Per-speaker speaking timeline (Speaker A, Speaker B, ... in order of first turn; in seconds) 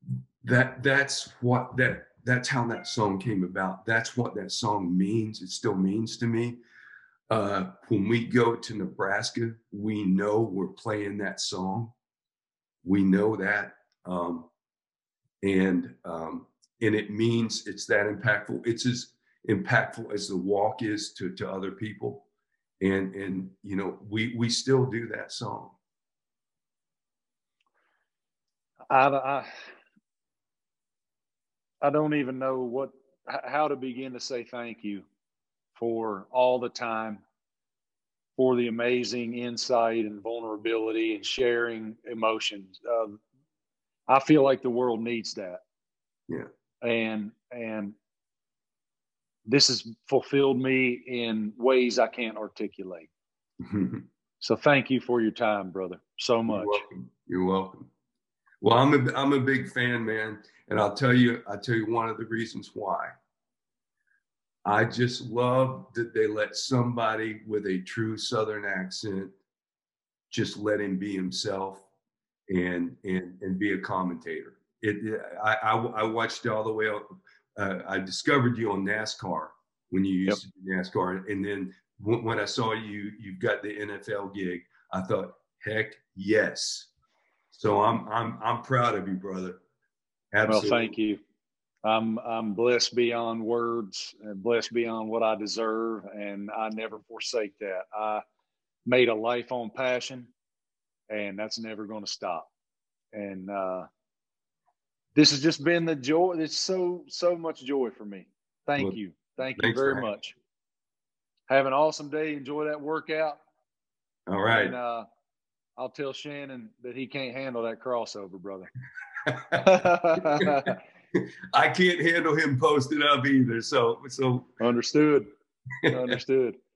Speaker A: 0.4-6.6, 7.3-11.9, 12.8-14.5, 15.4-22.3, 22.8-25.8, 53.6-54.1, 56.5-57.9, 58.6-63.2, 64.7-69.3, 70.3-71.8, 72.5-86.9, 87.5-89.6, 90.3-90.9, 109.6-110.1, 114.3-114.8, 119.2-124.5, 125.8-126.2
Speaker B: 28.9-29.5, 31.8-35.1, 35.8-37.2, 38.4-43.2, 44.1-45.6, 46.8-48.0, 49.5-53.1, 54.4-56.8, 90.5-91.2, 91.8-98.2, 98.9-100.3, 101.1-102.5, 103.1-103.9, 105.2-110.4, 111.5-113.4, 114.5-115.1, 115.8-118.7, 119.6-120.8, 124.6-125.3, 125.9-126.6